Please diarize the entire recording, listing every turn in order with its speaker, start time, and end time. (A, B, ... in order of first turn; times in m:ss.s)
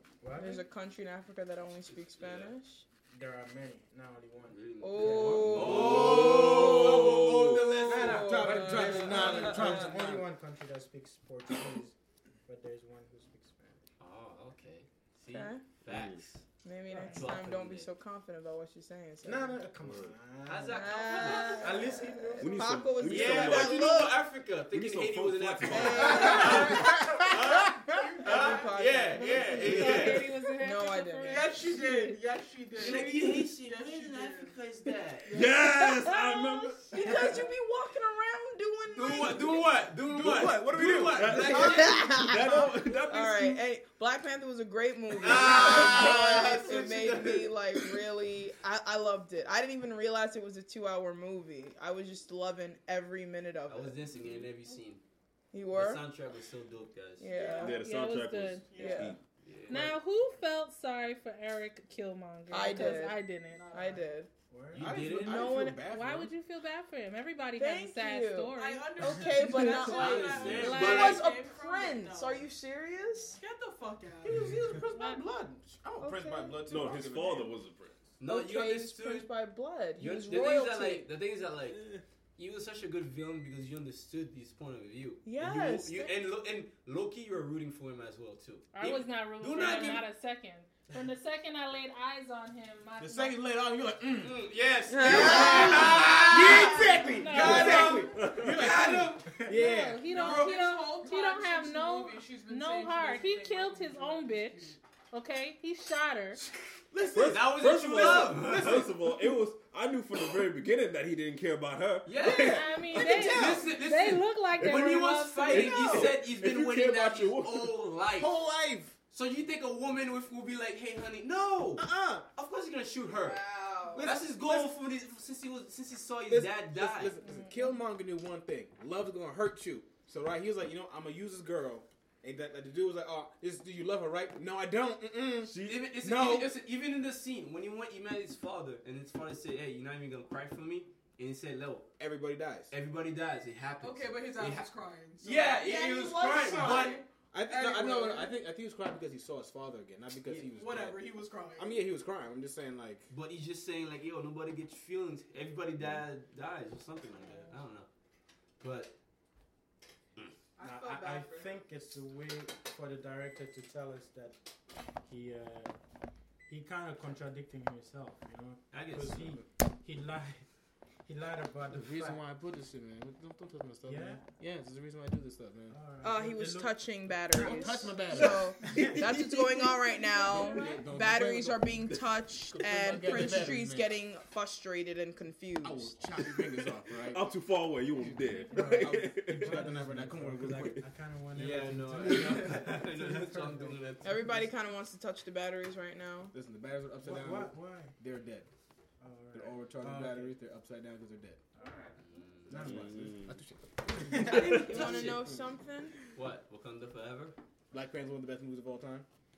0:00.2-0:00.6 A
0:00.4-0:02.9 B
0:02.2-0:02.6 C
0:03.1-0:05.4 A
0:04.5-0:09.6 C
0:04.8-0:06.2 B
0:05.0-0:07.3 D
0:05.3-0:07.7 E
0:07.8-0:09.8 B
0:07.9-0:11.9 A
0:07.9-0:10.3 D
0:12.5-0:13.8 A
0:14.0-0:16.4 C
0:15.3-0:15.6 B
0:15.9-0:16.3 E
0:16.6-0:19.7 B
0:16.9-0:17.3 A
0:17.1-0:17.9 C
0:19.2-0:22.7 A
0:19.8-0:20.2 E
0:20.5-0:22.1 C
0:20.7-0:24.2 B
0:22.4-0:24.1 E
0:23.0-0:30.3 C
0:24.7-0:26.7 E
0:25.7-0:27.2 B
0:27.9-0:28.8 F
0:28.2-0:32.1 B
0:29.4-0:31.7 G
0:31.2-0:34.5 F
0:32.8-0:35.4 C
0:32.8-0:33.1 B
0:35.3-0:37.4 E
0:35.4-0:39.8 B
0:38.9-0:42.2 C
0:40.0-0:41.8 D
0:41.1-0:43.6 E
0:41.4-0:54.0 B
0:45.2-0:47.8 C
0:45.4-0:46.6 E
0:53.7-0:55.0 C
0:54.1-0:54.5 E
0:55.5-0:56.0 B
0:55.7-0:57.4 C
0:57.2-0:57.8 B
0:57.3-0:57.8 F
0:57.6-0:59.2 E
0:57.6-0:58.8 G
0:58.7-0:59.1 F
0:58.7-0:59.2 B
0:59.4-1:00.0 C
0:59.7-1:03.7 G
1:02.5-1:04.3 B
1:03.5-1:04.1 F
1:04.5-1:05.0 A
1:04.7-1:05.6 C
1:04.7-1:06.3 D
1:05.1-1:05.8 B
1:05.8-1:09.4 G
1:07.6-1:13.4 B
1:08.6-1:12.5 F
1:09.9-1:11.2 C
1:10.2-1:10.8 E
1:10.5-1:11.3 G
1:13.4-1:14.6 F
1:14.2-1:17.6 D
1:14.8-1:15.3 G
1:16.0-1:16.6 B
1:16.7-1:18.0 E
1:18.2-1:19.3 C
1:18.2-1:21.0 B
1:20.0-1:30.0 C
1:25.2-1:26.2 B
1:28.7-1:33.4 G
1:33.0-1:34.5 D
1:34.2-1:39.5 C
1:34.9-1:37.0 B
1:35.0-1:40.0 D
1:36.6-1:38.2 G
1:38.0-1:38.9 E
1:39.5-1:46.4 G
1:40.0-1:44.8 F
1:40.1-1:40.6 C
1:46.9-1:49.3 D
1:47.1-1:52.6 E
1:47.2-1:48.9 C
1:52.0-1:58.4 C
1:52.2-1:53.7 D
1:52.3-1:56.0 G
1:55.5-1:57.8 E
1:55.6-1:56.2 D
1:58.2-1:59.0 D
1:59.1-2:03.4 C
2:01.8-2:02.3 D
2:03.1-2:04.1 B
2:03.9-2:04.7 D
2:04.0-2:07.2 C
2:06.3-2:16.6 D
2:07.2-2:07.8 G
2:15.4-2:16.0 E
2:15.6-2:21.9 C
2:22.0-2:22.7 D
2:22.7-2:24.7 C
2:23.8-2:28.4 F
2:25.2-2:27.0 C
2:26.5-2:31.0 D
2:30.4-2:31.8 F
2:31.6-2:33.1 D
2:33.1-2:37.9 C
2:38.6-2:39.0 C
2:40.6-2:41.6 F
2:40.6-2:44.4 A
2:45.0-2:45.7 A
2:46.5-2:50.5 A
2:48.7-2:49.4 C
2:51.0-2:52.2 A
2:51.7-2:55.8 D
2:53.8-2:54.2 A
2:55.7-2:59.1 A
2:56.0-3:06.1 B
2:57.4-2:59.7 D
2:59.9-3:00.9 G
3:00.2-3:01.9 D
3:02.5-3:04.0 D
3:05.6-3:07.2 D
3:07.0-3:09.8 E
3:08.1-3:10.8 D
3:08.5-3:14.4 A
3:10.5-3:10.8 E
3:11.3-3:14.2 C
3:14.0-3:16.4 B
3:16.3-3:18.5 D
3:17.0-3:18.0 A
3:19.0-3:20.3 A
3:19.3-3:21.4 D
3:21.6-3:23.3 A
3:22.0-3:23.0 C
3:22.6-3:23.4 E
3:23.3-3:25.4 D
3:23.9-3:24.5 A
3:24.3-3:25.2 C
3:24.3-3:26.0 B
3:24.3-3:24.8 E
3:26.1-3:27.4 C
3:27.7-3:29.1 D